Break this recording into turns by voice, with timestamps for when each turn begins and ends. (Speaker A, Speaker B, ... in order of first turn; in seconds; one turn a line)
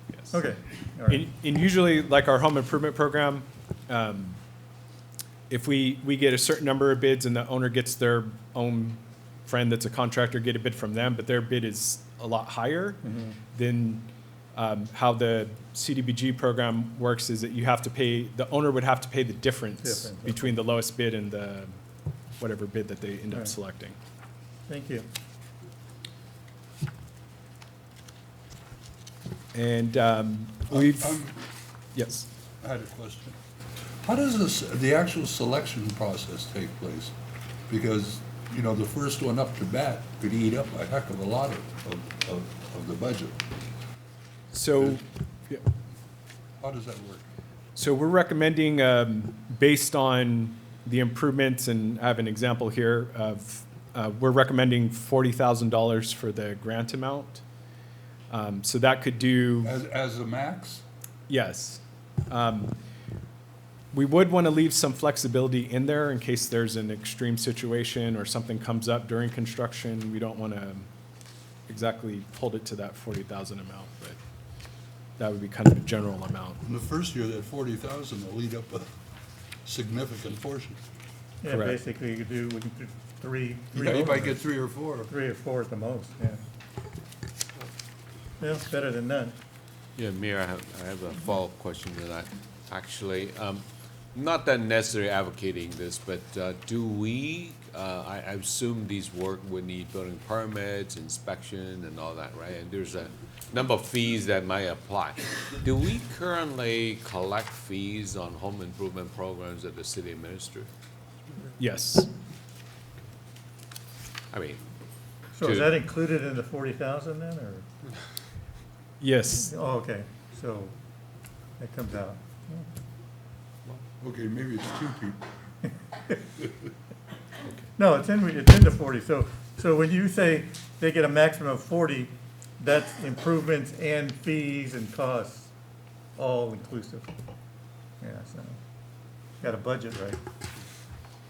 Speaker A: 0.3-1.3
Speaker B: 1.1-4.4
Speaker B: 5.5-13.0
Speaker A: 13.0-13.4
Speaker B: 13.5-21.8
Speaker A: 19.8-20.5
Speaker B: 22.4-24.0
Speaker A: 23.3-23.6
Speaker A: 24.7-25.1
Speaker B: 29.5-31.2
Speaker C: 30.7-31.4
Speaker B: 31.9-32.3
Speaker C: 32.6-33.4
Speaker C: 34.0-37.1
Speaker C: 37.7-43.4
Speaker B: 44.5-45.7
Speaker C: 46.6-47.3
Speaker B: 47.8-57.4
Speaker B: 58.3-59.7
Speaker C: 59.6-60.8
Speaker B: 61.3-62.8
Speaker B: 63.9-70.9
Speaker B: 71.7-74.2
Speaker B: 75.2-76.6
Speaker C: 76.6-78.9
Speaker C: 79.7-80.8
Speaker A: 81.4-84.4
Speaker B: 81.5-81.8
Speaker C: 83.8-85.1
Speaker A: 85.1-86.4
Speaker A: 88.4-89.3
Speaker D: 90.0-110.7
Speaker B: 111.6-112.1
Speaker D: 114.3-114.6
Speaker A: 115.4-117.7
Speaker D: 115.4-115.7
Speaker B: 119.0-119.5
Speaker A: 119.5-120.7
Speaker A: 121.6-122.7
Speaker C: 124.0-125.2
Speaker A: 127.8-135.5
Speaker A: 136.2-137.1
Speaker A: 138.0-138.6
Speaker A: 139.4-140.2